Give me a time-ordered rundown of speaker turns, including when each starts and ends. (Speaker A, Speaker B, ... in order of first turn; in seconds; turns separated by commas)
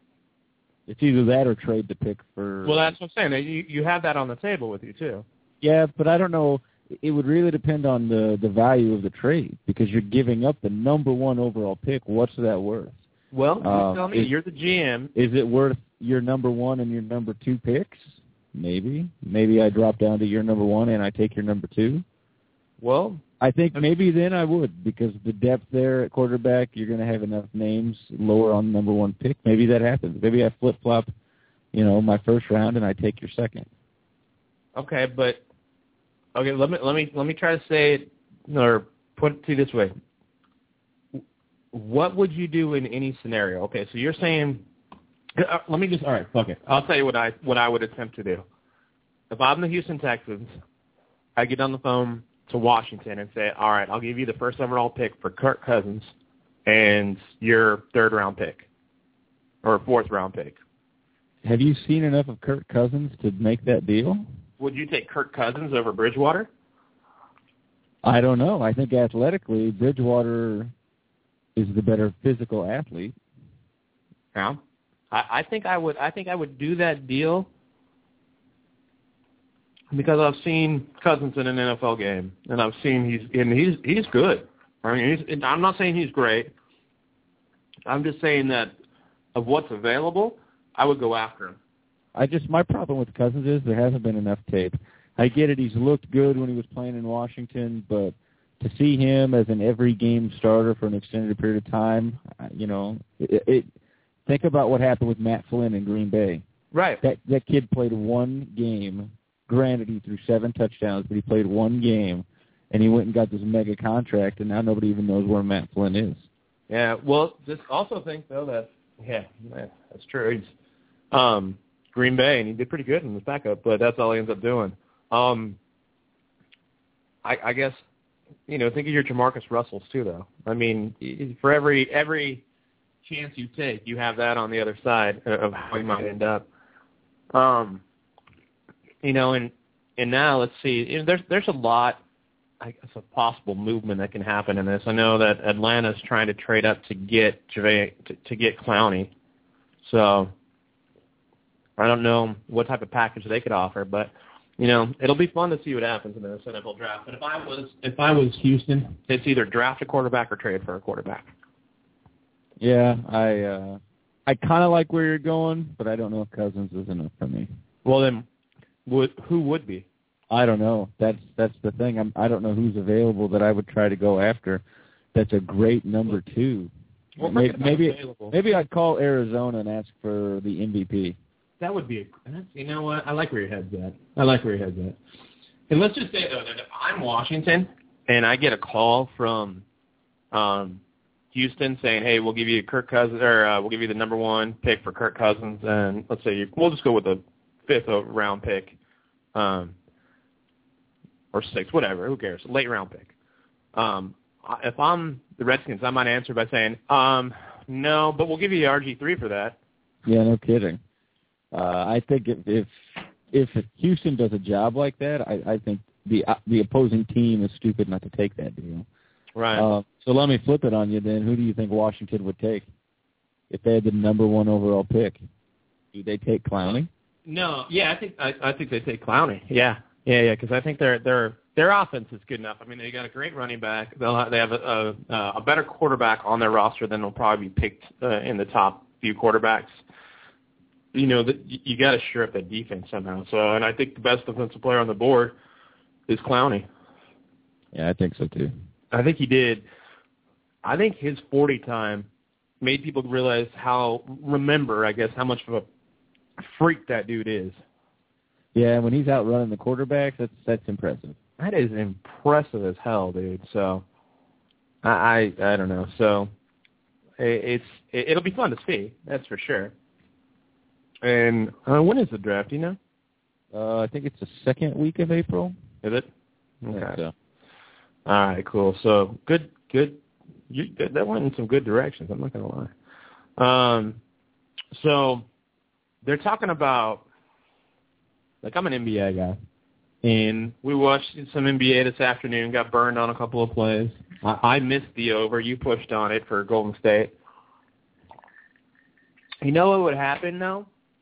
Speaker A: 0.9-2.9, Speaker B: 2.6-5.2, Speaker A: 5.6-13.0, Speaker B: 13.3-15.1, Speaker A: 13.6-14.3, Speaker A: 15.1-22.0, Speaker B: 22.8-23.2, Speaker A: 23.4-31.1, Speaker A: 31.7-33.7, Speaker B: 34.7-35.4, Speaker B: 36.3-39.9, Speaker B: 41.7-44.6, Speaker B: 45.3-48.4, Speaker B: 49.3-50.5, Speaker B: 51.4-56.1, Speaker B: 56.6-58.7, Speaker B: 59.6-60.6, Speaker A: 61.4-64.2, Speaker B: 64.6-66.5, Speaker A: 68.0-70.7, Speaker A: 71.5-73.1, Speaker B: 75.1-77.5, Speaker B: 79.9-86.5, Speaker B: 87.8-88.7, Speaker B: 89.3-91.6, Speaker A: 92.1-103.7, Speaker A: 104.2-106.4, Speaker B: 106.7-107.0, Speaker A: 107.0-116.3, Speaker B: 116.7-120.5, Speaker B: 121.1-125.6, Speaker B: 127.2-127.8, Speaker B: 128.5-132.4, Speaker B: 133.0-136.4, Speaker B: 137.3-137.8, Speaker B: 139.0-142.0, Speaker B: 142.6-149.1, Speaker B: 149.8-150.3, Speaker B: 151.8-161.3, Speaker A: 162.6-167.5, Speaker B: 167.8-168.2, Speaker B: 168.8-169.8, Speaker A: 170.3-174.6, Speaker A: 175.1-176.7, Speaker B: 177.2-178.4, Speaker A: 177.2-181.2, Speaker B: 181.6-185.0, Speaker B: 185.7-189.6, Speaker B: 190.3-190.8, Speaker B: 191.3-198.8, Speaker B: 199.3-199.7, Speaker B: 201.3-203.1, Speaker B: 203.7-209.6, Speaker A: 210.0-210.8, Speaker A: 211.5-212.7, Speaker A: 213.3-218.8, Speaker B: 219.3-219.7, Speaker A: 219.5-222.7, Speaker A: 223.5-225.2, Speaker A: 225.9-226.9, Speaker B: 227.2-239.8, Speaker B: 240.9-245.3, Speaker B: 246.1-246.7, Speaker A: 247.7-248.5, Speaker B: 248.9-249.6, Speaker B: 250.6-252.1, Speaker B: 252.6-255.7, Speaker B: 256.4-257.6, Speaker A: 258.5-261.2, Speaker B: 261.4-263.8, Speaker B: 264.8-266.3, Speaker B: 267.2-269.7, Speaker B: 271.0-272.8, Speaker A: 273.5-275.6, Speaker B: 275.8-276.1, Speaker B: 276.6-277.0, Speaker A: 276.7-277.1, Speaker B: 278.1-280.0, Speaker B: 280.5-282.7, Speaker B: 283.4-284.0, Speaker B: 284.7-285.2, Speaker B: 286.0-287.0, Speaker B: 288.4-289.4, Speaker B: 290.0-297.1, Speaker B: 299.4-300.7